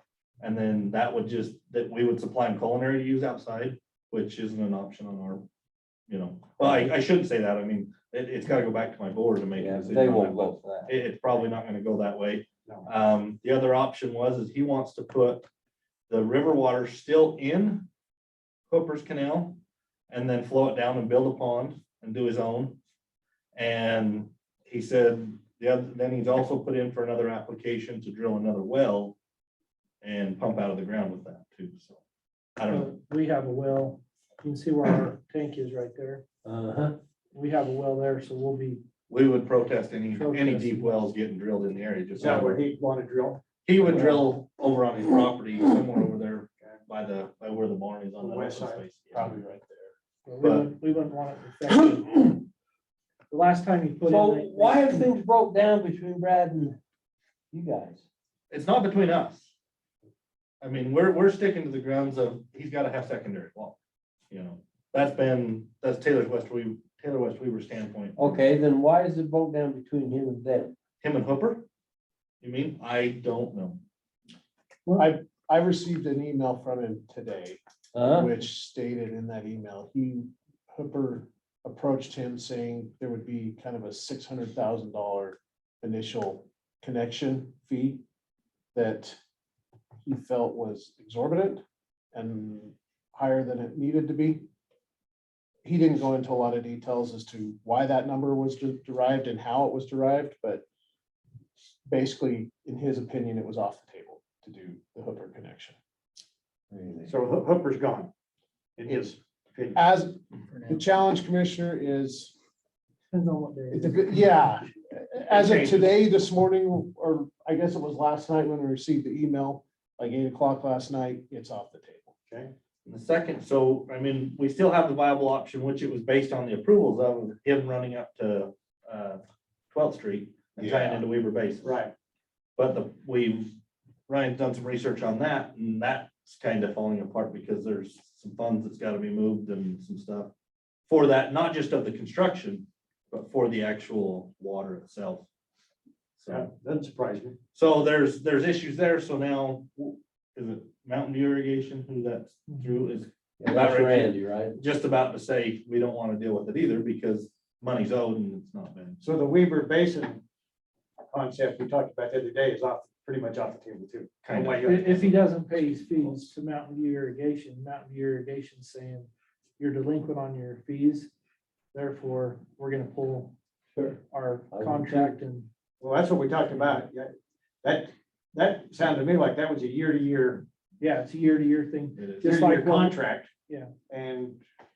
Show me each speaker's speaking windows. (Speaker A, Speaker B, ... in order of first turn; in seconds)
Speaker A: 0.4-5.5, 6.1-15.5, 16.1-17.9, 18.7-19.6, 20.1-22.8, 23.5-29.2, 30.0-32.0, 32.6-32.9, 39.1-42.6, 43.6-49.3, 50.4-50.7, 58.5-59.5, 60.6-63.8, 64.3-68.4, 71.0-71.7, 72.4-73.8, 122.9-131.7, 132.6-133.5, 134.1-140.3, 140.9-145.3, 146.2-146.5, 147.5-159.0, 164.2-164.9, 182.0-182.3
Speaker B: 9.6-10.9, 36.4-37.0, 54.0-56.8, 57.5-58.0, 68.2-70.7, 77.9-78.3, 106.7-107.1, 153.4-154.6, 174.5-175.2
Speaker C: 32.7-36.2, 37.3-38.8, 40.1-41.0, 50.3-52.5, 53.3-55.1, 113.1-114.5, 164.6-171.1, 171.7-173.3, 174.1-175.5, 180.8-183.7
Speaker D: 42.2-43.4, 48.2-48.9, 107.0-108.1, 108.8-109.8, 115.3-115.8, 130.6-131.0, 131.6-131.9, 146.3-147.4, 159.0-160.2, 161.1-165.2, 175.8-177.1, 177.6-180.4, 182.2-183.3, 183.9-184.4
Speaker E: 49.1-49.9, 75.0-88.0, 88.7-89.2, 90.0-91.6, 92.1-94.5, 95.6-100.7, 101.9-105.8, 108.9-109.1, 109.8-112.3, 113.7-122.1